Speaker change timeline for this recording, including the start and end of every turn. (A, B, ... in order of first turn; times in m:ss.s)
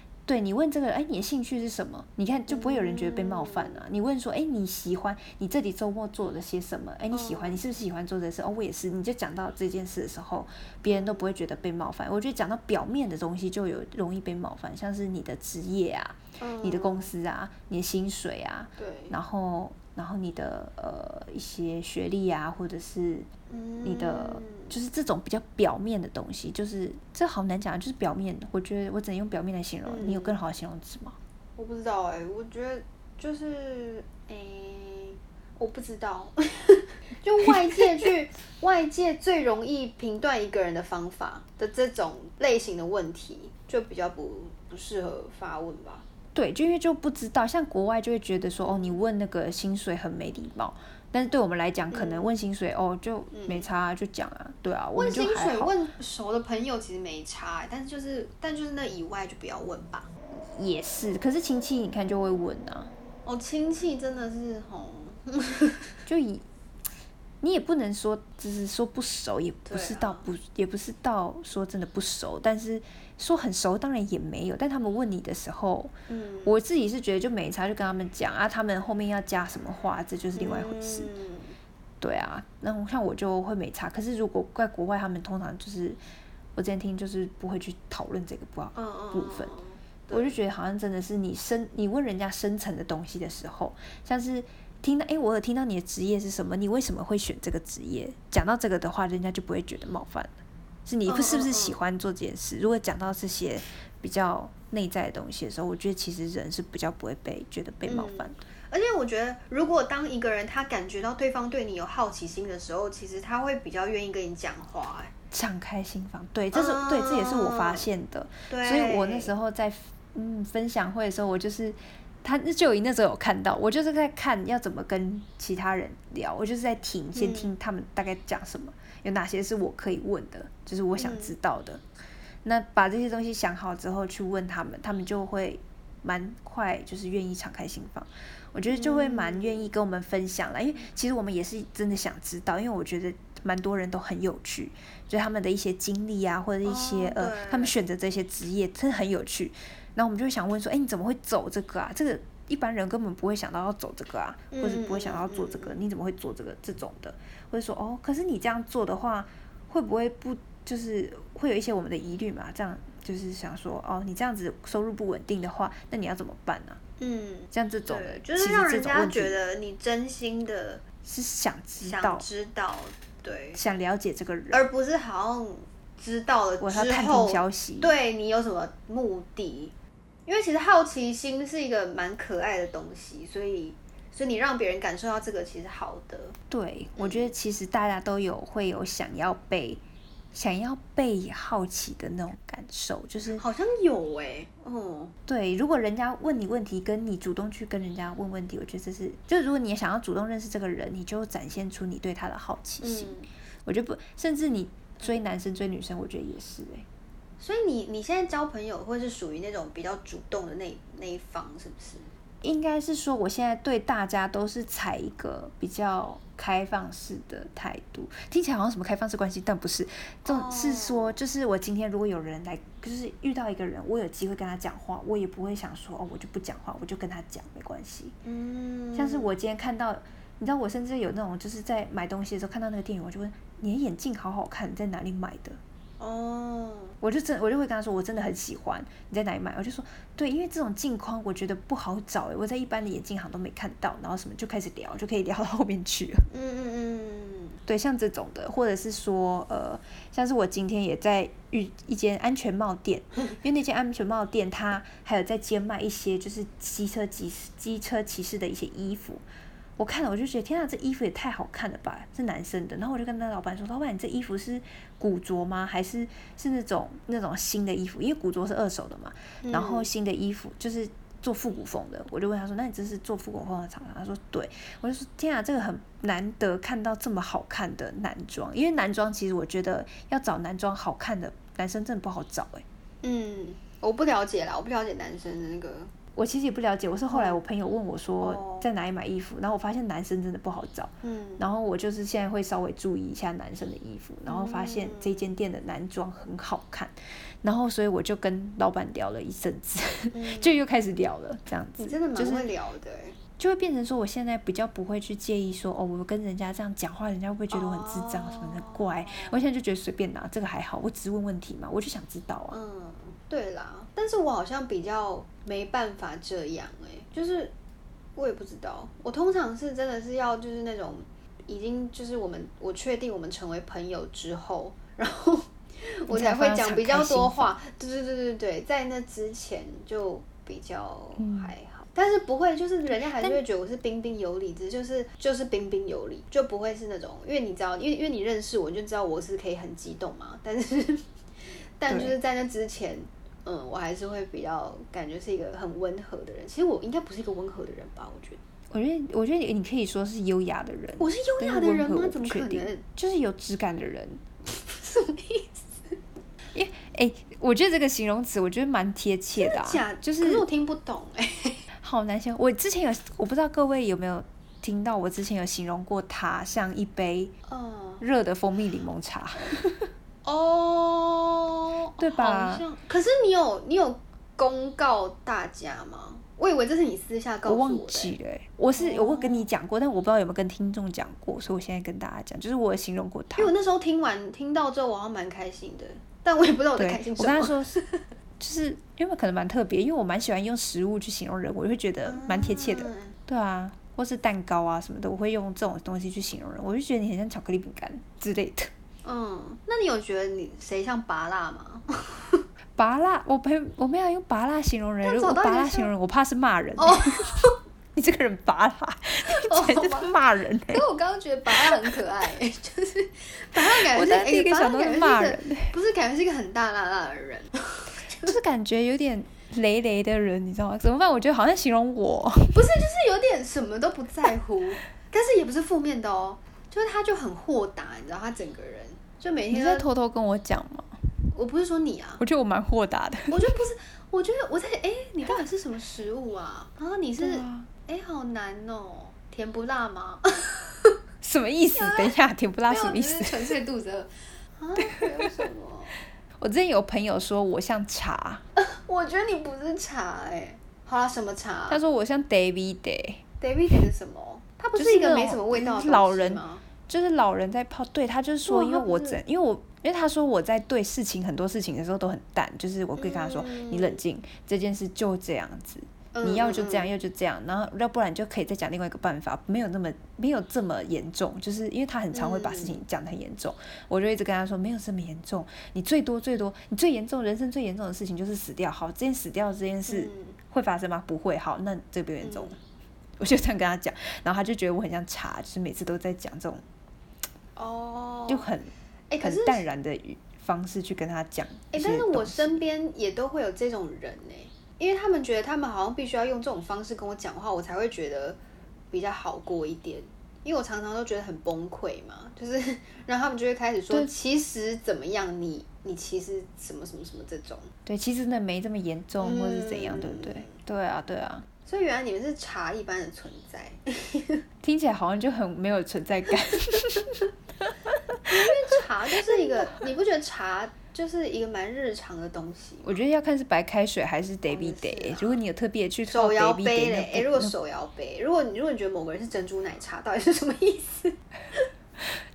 0:00.3-0:23.3 A
0:02.5-0:03.8 B
0:07.1-0:07.6 B
0:10.9-0:11.4 B
0:16.4-0:17.1 B
0:18.8-0:19.2 B
0:23.5-0:24.7 B
0:23.8-0:31.2 A
0:29.8-0:30.4 B
0:31.6-0:46.0 B
0:46.3-0:55.7 A
0:48.6-0:49.0 B
0:51.9-0:52.3 B
0:53.3-0:53.7 B
0:54.9-1:00.1 B
1:00.3-1:02.9 A
1:03.2-1:06.0 B
1:06.0-1:06.4 A
1:07.4-1:15.9 A
1:09.6-1:10.3 B
1:16.1-1:16.6 B
1:16.4-1:21.1 A
1:20.4-1:21.6 B
1:22.0-1:26.0 A
1:26.5-1:29.5 A
1:28.7-1:30.4 B
1:30.1-1:40.3 A
1:40.8-1:48.4 A
1:41.1-1:41.8 B
1:47.8-1:55.1 B
1:55.3-2:11.8 A
1:56.5-1:57.9 B
1:58.5-1:59.3 B
2:07.1-2:07.5 B
2:11.0-2:11.3 B
2:12.4-2:46.8 A
2:18.7-2:19.7 B
2:26.6-2:27.7 B
2:34.5-2:35.8 B
2:47.0-2:50.8 B
2:47.5-2:49.4 A
2:51.0-2:52.2 A
2:51.8-2:53.6 B
2:53.5-2:54.7 A
2:54.5-2:59.7 B
2:56.6-2:57.9 A
3:00.2-3:06.3 B
3:06.5-3:09.8 A
3:07.0-3:07.3 B
3:10.3-3:13.4 A
3:13.4-3:15.1 B
3:15.3-3:26.8 A
3:22.8-3:23.3 B
3:27.4-3:32.1 B
3:32.4-3:48.2 A
3:40.2-3:41.2 B
3:48.2-3:49.3 B
3:48.9-3:55.6 A
3:56.0-3:57.0 B
3:57.0-4:06.3 A
4:06.3-4:07.6 B
4:07.6-4:19.2 A
4:19.8-4:42.6 A
4:29.4-4:29.9 B
4:43.0-4:45.9 B
4:46.1-5:02.5 A
4:47.1-4:47.4 B
4:48.2-4:48.7 B
4:51.0-4:51.4 B
4:54.2-4:55.3 B
5:00.1-5:00.6 B
5:01.8-5:03.2 B
5:03.4-5:12.6 A
5:07.5-5:09.4 B
5:12.5-5:17.5 B
5:18.2-5:41.0 B
5:26.1-5:27.5 A
5:31.2-5:31.5 A
5:41.8-5:48.4 B
5:41.9-5:42.1 A
5:48.7-5:54.2 A
5:51.0-5:52.8 B
5:54.5-5:56.0 B
5:56.5-6:00.4 A
5:59.4-6:01.6 B
6:01.8-6:07.3 A
6:07.5-6:08.0 B
6:08.0-6:09.9 A
6:10.2-6:18.1 B
6:12.0-6:12.6 A
6:17.4-6:23.5 A
6:18.7-6:19.5 B
6:23.3-6:28.0 B
6:26.8-6:27.7 A
6:28.4-6:38.7 A
6:32.0-6:33.2 B
6:39.0-6:42.5 B
6:42.8-6:47.3 A
6:45.0-6:45.9 B
6:46.8-6:47.6 B
6:47.9-6:50.8 A
6:49.3-6:50.1 B
6:50.7-6:58.3 B
6:51.5-6:51.8 A
6:53.8-6:55.7 A
6:58.2-7:02.6 A
7:02.5-7:09.9 B
7:09.5-7:11.0 A
7:11.3-7:12.2 B
7:12.2-7:13.5 A
7:13.3-7:20.9 B
7:17.2-7:17.7 A
7:21.2-7:23.5 A
7:21.7-7:22.1 B
7:22.7-7:26.0 B
7:24.8-7:25.3 A
7:26.4-7:28.4 A
7:28.6-7:31.8 B
7:31.7-7:33.2 A
7:33.4-7:36.6 B
7:34.8-8:02.6 A
7:38.5-7:39.2 B
7:43.0-7:44.0 B
7:46.1-7:46.9 B
7:52.1-7:52.8 B
7:59.9-8:00.4 B
8:02.2-8:02.6 B
8:03.2-8:06.6 A
8:07.6-8:08.5 B
8:08.3-8:12.6 A
8:09.1-8:09.6 B
8:11.7-8:18.4 B
8:18.9-8:27.7 B
8:27.8-8:31.4 A
8:29.2-8:30.5 B
8:31.6-8:34.4 B
8:34.6-8:38.5 A
8:38.2-8:43.0 B
8:39.2-8:39.9 A
8:42.8-8:47.5 A
8:44.5-8:45.4 B
8:46.1-8:51.6 B